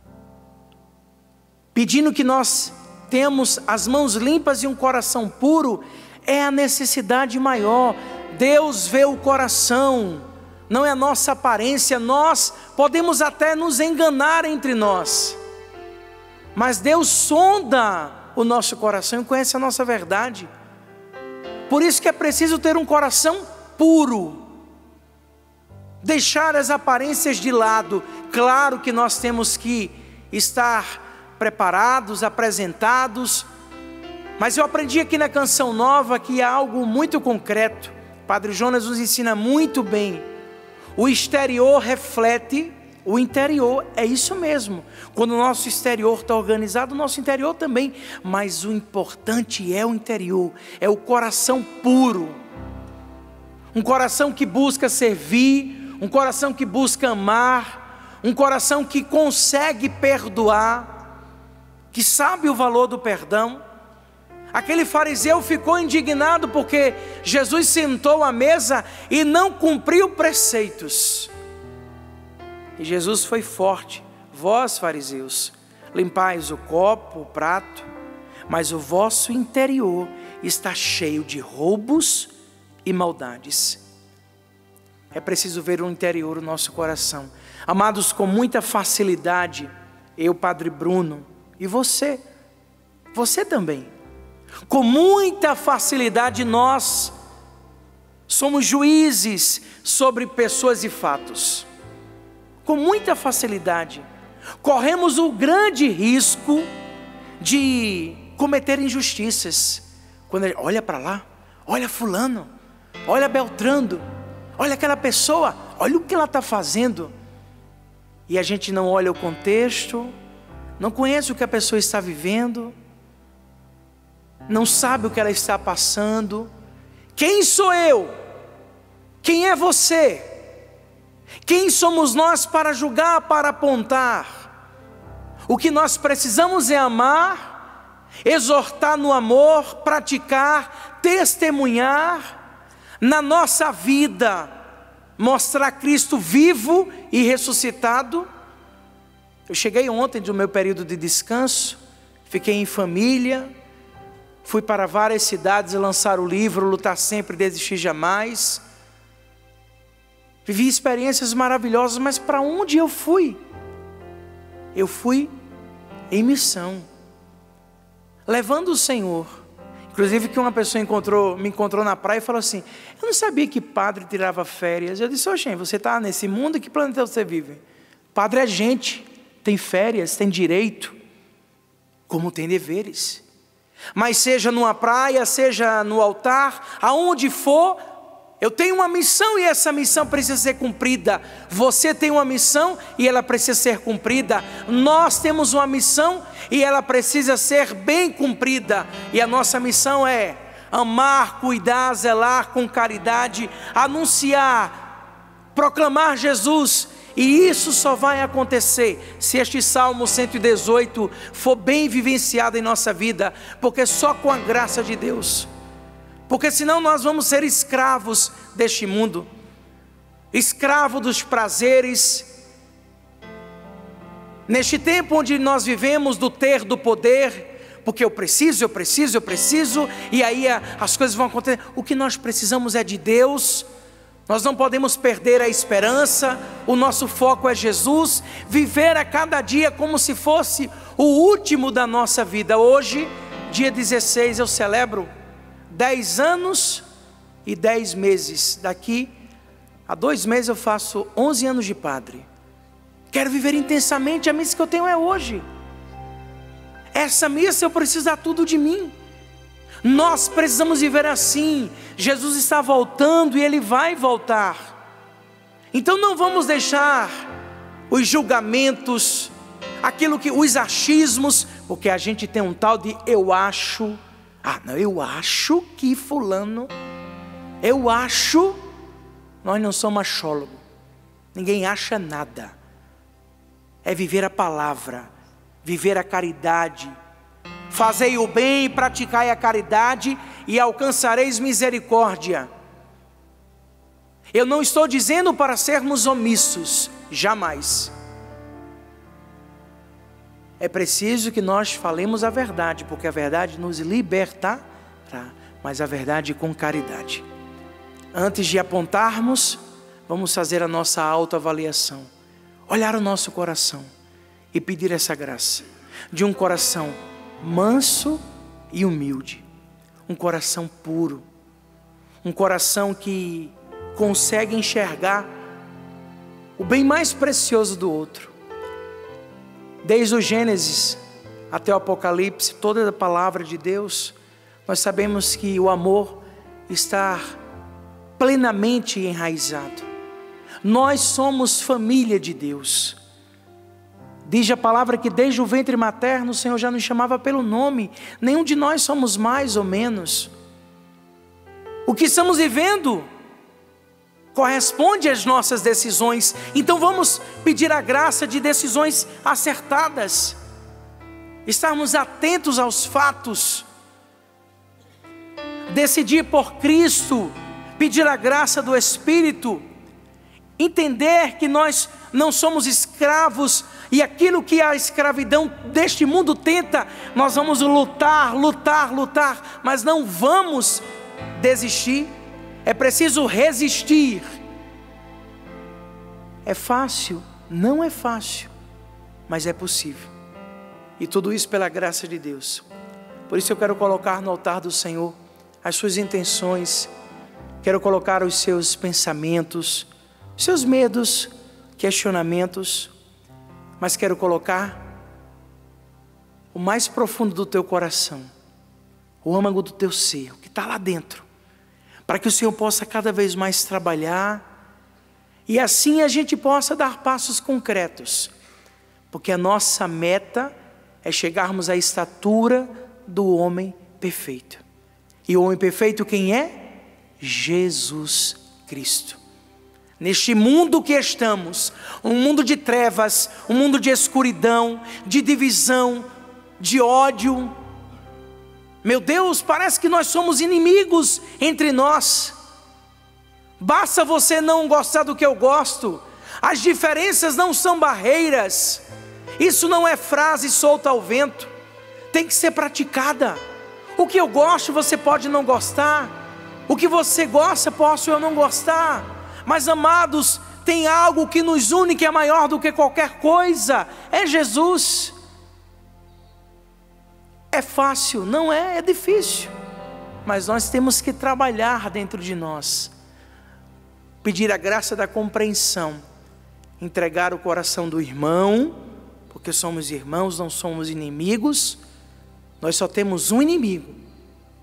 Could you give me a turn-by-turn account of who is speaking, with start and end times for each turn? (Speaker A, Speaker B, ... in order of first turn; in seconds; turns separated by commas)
Speaker A: 1.7-15.4, Speaker A: 16.5-20.5, Speaker A: 21.7-24.4, Speaker A: 26.0-33.5, Speaker A: 34.4-40.2, Speaker A: 41.0-52.4, Speaker A: 53.7-61.0, Speaker A: 61.9-63.6, Speaker A: 64.5-71.3, Speaker A: 72.8-77.9, Speaker A: 78.5-82.3, Speaker A: 82.8-83.8, Speaker A: 85.1-92.2, Speaker A: 93.1-93.9, Speaker A: 94.7-97.1, Speaker A: 98.3-101.7, Speaker A: 102.6-104.0, Speaker A: 104.6-106.7, Speaker A: 107.4-112.5, Speaker A: 113.1-114.0, Speaker A: 114.6-117.1, Speaker A: 118.3-120.1, Speaker A: 120.8-122.7, Speaker A: 124.5-126.5, Speaker A: 127.2-128.1, Speaker A: 129.2-130.3, Speaker A: 131.4-134.5, Speaker A: 135.5-137.6, Speaker A: 138.2-142.3, Speaker A: 143.0-144.5, Speaker A: 145.2-148.3, Speaker A: 149.5-153.5, Speaker A: 154.4-158.6, Speaker A: 160.4-163.4, Speaker A: 164.7-165.3, Speaker A: 166.1-166.8, Speaker A: 168.3-177.6, Speaker A: 178.1-180.9, Speaker A: 182.1-183.2, Speaker A: 183.9-187.8, Speaker A: 188.4-204.8, Speaker A: 205.5-215.5, Speaker A: 216.3-219.3, Speaker A: 220.3-222.3, Speaker A: 224.5-233.7, Speaker A: 234.3-245.1, Speaker A: 245.7-246.8, Speaker A: 247.4-249.1, Speaker A: 249.9-252.2, Speaker A: 253.1-255.4, Speaker A: 256.9-258.9, Speaker A: 259.8-264.8, Speaker A: 265.7-267.2, Speaker A: 267.9-276.7, Speaker A: 277.6-278.6, Speaker A: 279.4-280.6, Speaker A: 281.3-282.5, Speaker A: 283.8-285.1, Speaker A: 285.6-286.9, Speaker A: 287.7-292.5, Speaker A: 294.3-297.9, Speaker A: 300.6-307.2, Speaker A: 308.1-312.1, Speaker A: 312.7-313.9, Speaker A: 314.5-318.2, Speaker A: 318.7-319.4, Speaker A: 320.1-321.2, Speaker A: 322.2-325.3, Speaker A: 326.6-328.3, Speaker A: 329.8-331.0, Speaker A: 331.5-334.1, Speaker A: 334.6-337.2, Speaker A: 338.2-339.9, Speaker A: 340.6-343.0, Speaker A: 344.2-350.3, Speaker A: 351.9-353.1, Speaker A: 354.3-360.4, Speaker A: 361.4-363.6, Speaker A: 365.7-369.6, Speaker A: 370.6-380.8, Speaker A: 381.4-382.1, Speaker A: 382.6-384.2, Speaker A: 386.4-388.5, Speaker A: 389.3-390.1, Speaker A: 391.0-392.6, Speaker A: 393.3-396.9, Speaker A: 397.6-402.9, Speaker A: 403.8-404.9, Speaker A: 406.5-408.3, Speaker A: 409.2-411.2, Speaker A: 412.1-414.4, Speaker A: 415.5-418.3, Speaker A: 419.1-424.6, Speaker A: 425.3-429.2, Speaker A: 430.0-436.1, Speaker A: 436.6-437.5, Speaker A: 438.8-442.3, Speaker A: 443.6-448.8, Speaker A: 449.4-451.5, Speaker A: 452.1-453.4, Speaker A: 453.9-456.1, Speaker A: 456.7-465.1, Speaker A: 467.5-469.5, Speaker A: 470.2-472.9, Speaker A: 474.2-476.0, Speaker A: 476.8-478.8, Speaker A: 479.3-481.8, Speaker A: 482.6-484.0